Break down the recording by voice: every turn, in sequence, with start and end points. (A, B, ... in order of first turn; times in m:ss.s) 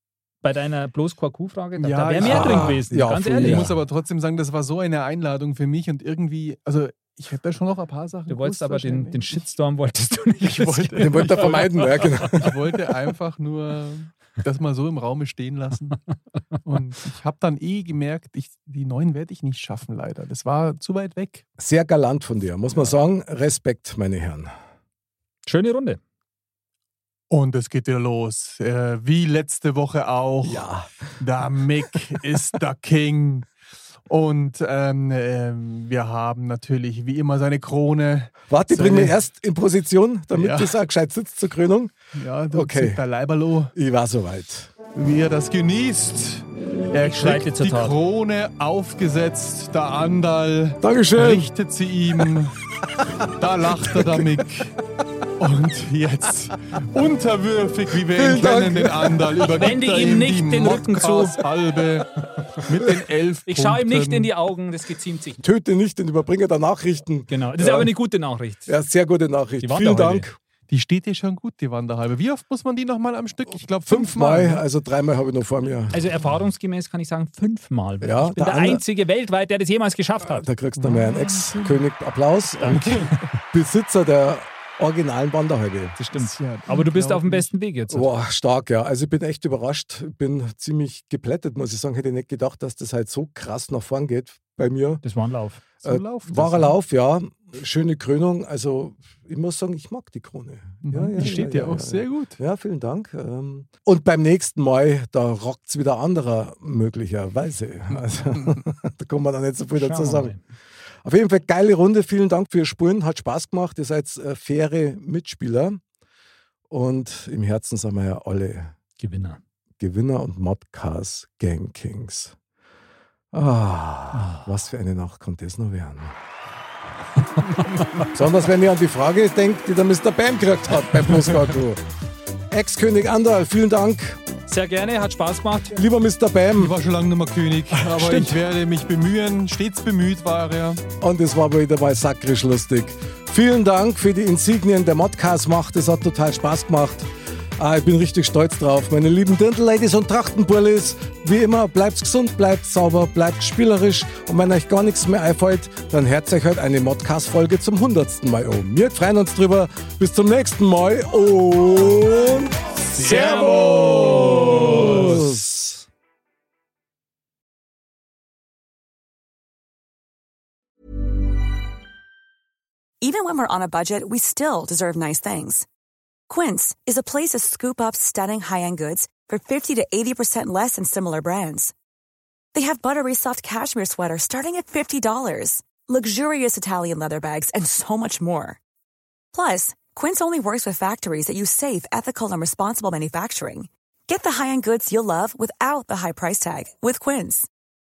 0:00.4-0:03.7 A
0:01.8-0:09.4 B
0:02.2-0:03.8 C
0:08.3-0:12.3 A
0:10.4-0:16.0 B
0:11.0-0:12.8 C
0:16.6-0:21.5 B
0:21.6-0:24.5 C
0:25.4-0:26.0 A
0:27.3-0:30.7 B
0:30.4-0:30.9 C
0:31.2-0:33.5 B
0:34.1-0:39.2 B
0:38.5-0:41.9 C
0:40.3-0:40.8 B
0:42.1-0:43.7 B
0:42.5-0:43.0 C
0:43.7-0:44.7 C
0:44.9-0:52.5 B
0:47.0-0:48.0 A
0:50.8-0:51.5 C
0:53.3-0:54.7 B
0:53.8-0:54.3 C
0:55.4-1:04.3 B
0:58.1-0:59.4 C
0:59.5-1:01.4 A
1:03.5-1:05.4 A
1:05.4-1:07.9 C
1:07.3-1:08.7 A
1:08.7-1:10.4 C
1:09.6-1:10.3 A
1:10.7-1:14.6 B
1:13.8-1:16.0 C
1:15.9-1:20.4 A
1:18.0-1:18.8 C
1:20.2-1:26.0 C
1:20.8-1:21.9 B
1:22.6-1:23.2 A
1:22.7-1:23.1 B
1:26.0-1:28.1 A
1:26.1-1:27.5 B
1:27.9-1:35.0 C
1:35.0-1:35.6 A
1:35.8-1:36.8 B
1:35.8-1:50.3 C
1:40.8-1:42.4 B
1:49.8-1:50.4 A
1:51.0-1:55.8 C
1:56.7-1:58.7 C
1:59.0-1:59.4 A
1:59.8-2:02.4 C
2:03.3-2:06.1 C
2:04.2-2:04.4 A
2:08.0-2:11.8 C
2:12.5-2:14.2 C
2:14.5-2:15.8 A
2:15.7-2:16.8 C
2:16.5-2:20.8 B
2:17.8-2:18.4 C
2:21.0-2:45.4 C
2:42.9-2:45.1 B
2:43.0-2:45.8 A
2:53.0-2:55.7 D
2:56.3-3:01.7 D
3:02.5-3:08.6 D
3:09.3-3:17.5 D